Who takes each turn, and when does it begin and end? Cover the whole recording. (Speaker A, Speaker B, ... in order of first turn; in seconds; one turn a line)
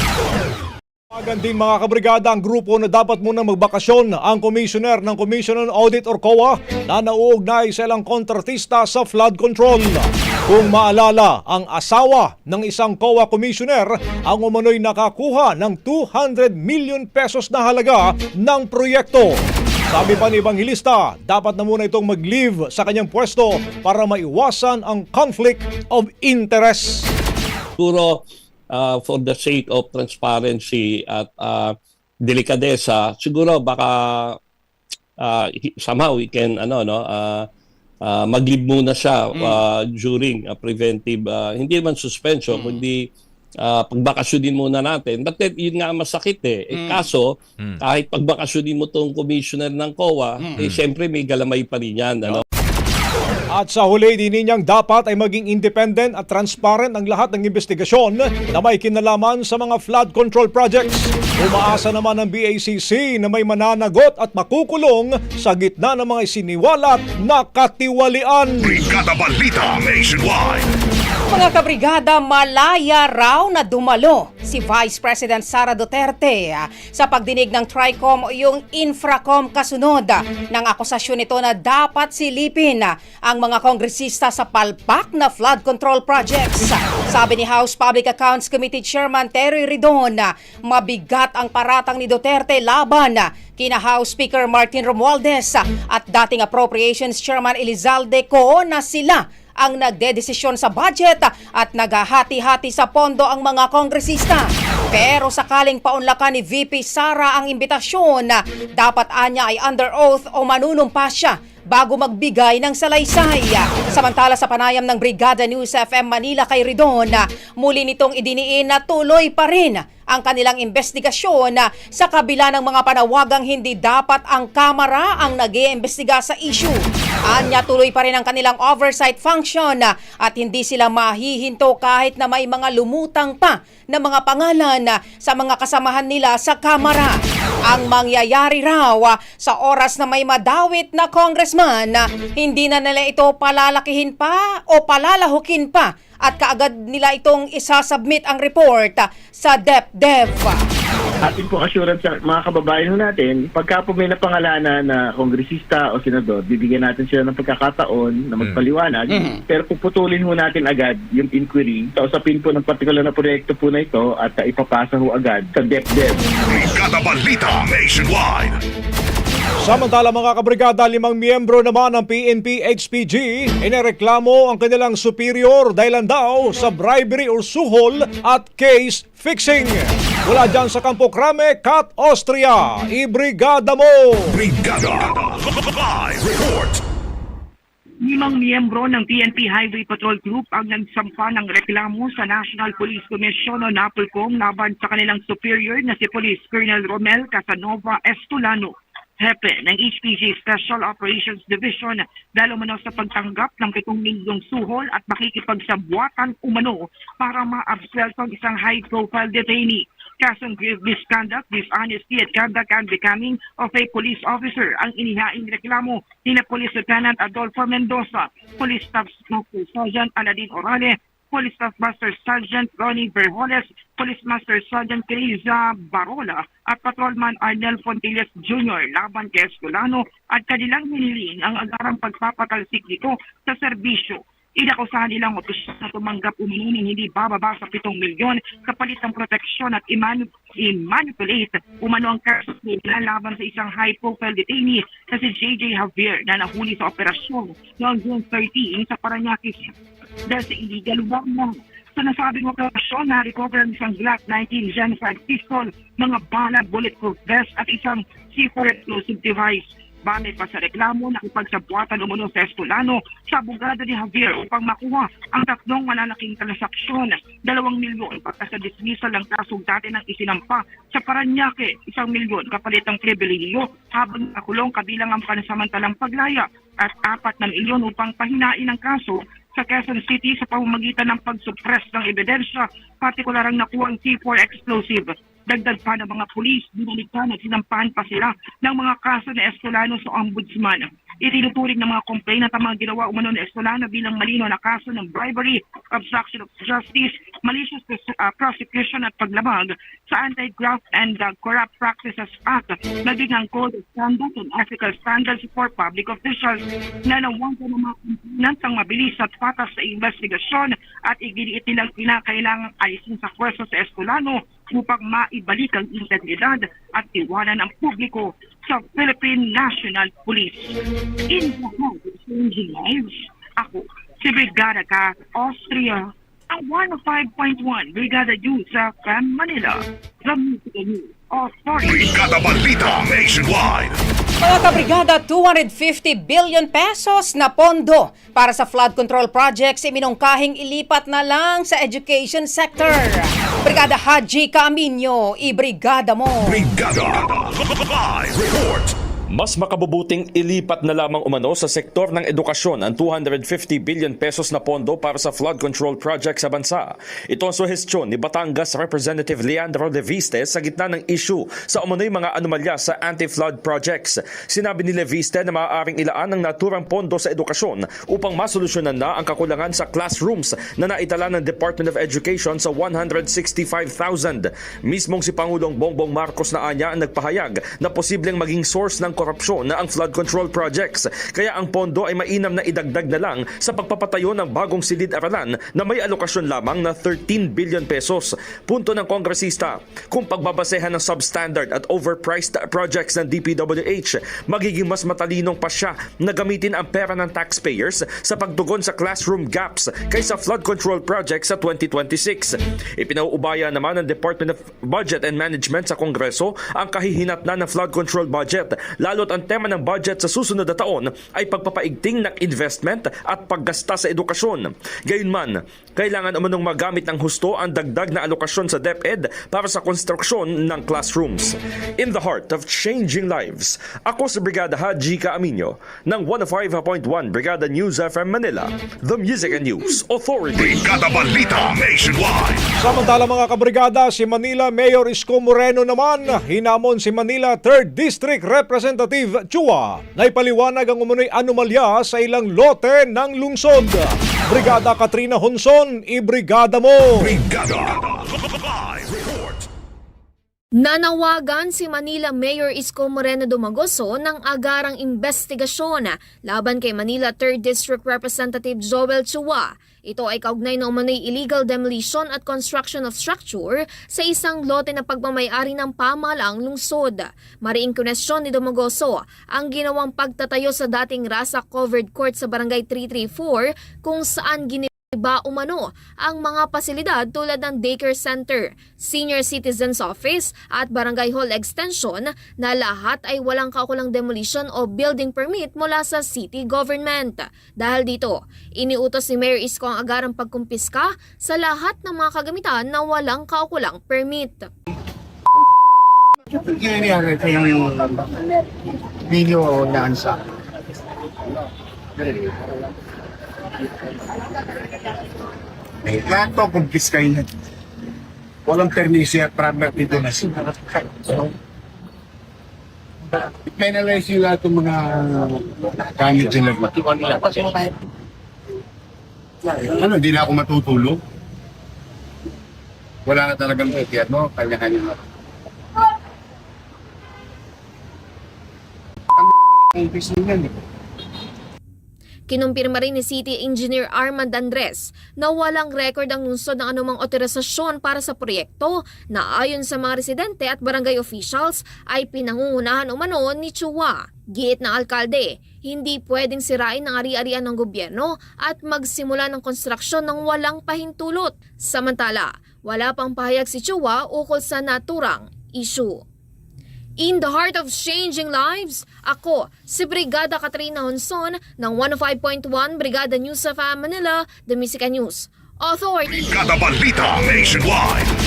Speaker A: 1.1-19.4
Speaker A: 19.9-27.1
Speaker B: 27.8-34.4
Speaker B: 35.2-37.5
Speaker B: 38.0-43.1
Speaker B: 43.6-52.4
Speaker A: 53.5-68.7
Speaker C: 68.6-70.7
Speaker D: 71.3-150.7
Speaker E: 151.2-166.3
Speaker C: 166.4-168.6
Speaker A: 169.6-184.4
Speaker C: 184.5-186.8
Speaker F: 188.0-249.7
Speaker F: 250.3-332.3
Speaker C: 331.8-334.0
Speaker D: 334.4-346.6
Speaker C: 346.5-348.9
Speaker G: 349.3-430.8
Speaker C: 430.6-432.6
Speaker A: 432.8-447.2
Speaker C: 447.3-449.6
Speaker H: 450.8-494.7
Speaker I: 496.5-498.3
Speaker I: 499.3-500.4
Speaker I: 506.1-507.5
Speaker I: 508.7-511.5
Speaker I: 513.7-517.9
Speaker I: 519.7-521.2
Speaker I: 523.3-525.2
Speaker I: 529.4-530.7
Speaker H: 532.5-556.2
Speaker H: 557.2-566.3
Speaker C: 566.3-568.3